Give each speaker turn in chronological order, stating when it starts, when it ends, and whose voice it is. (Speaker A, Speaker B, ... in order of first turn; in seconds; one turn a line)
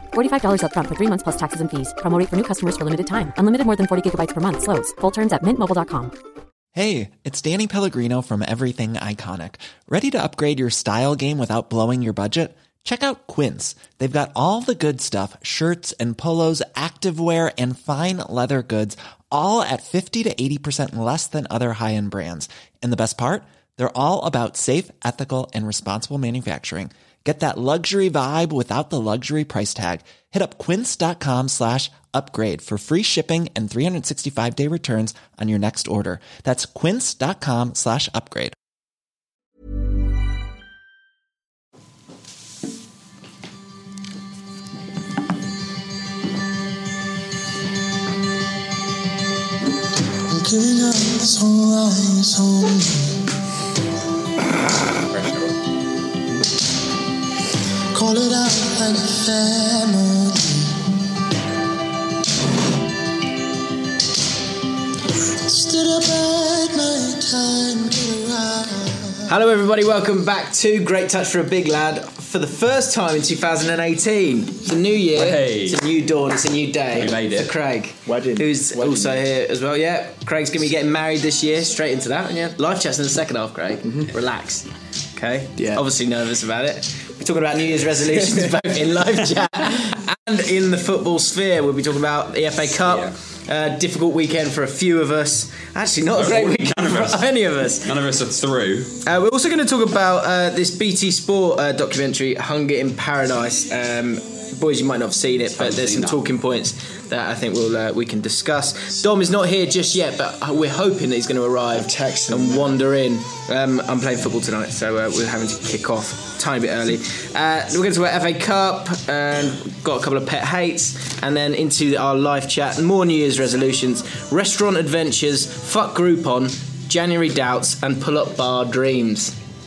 Speaker A: 0.1-6.1
Speaker B: 6.8-38.5
Speaker C: 50.3-52.9
Speaker D: 54.9-55.6
Speaker C: 58.0-60.4
Speaker C: 67.3-69.0
Speaker E: 69.2-97.9
Speaker D: 75.1-75.8
Speaker D: 77.0-77.6
Speaker C: 78.1-79.2
Speaker C: 85.6-85.8
Speaker C: 88.2-88.5
Speaker D: 92.8-93.1
Speaker D: 96.1-99.0
Speaker E: 99.0-129.3
Speaker D: 105.6-106.2
Speaker C: 111.7-112.8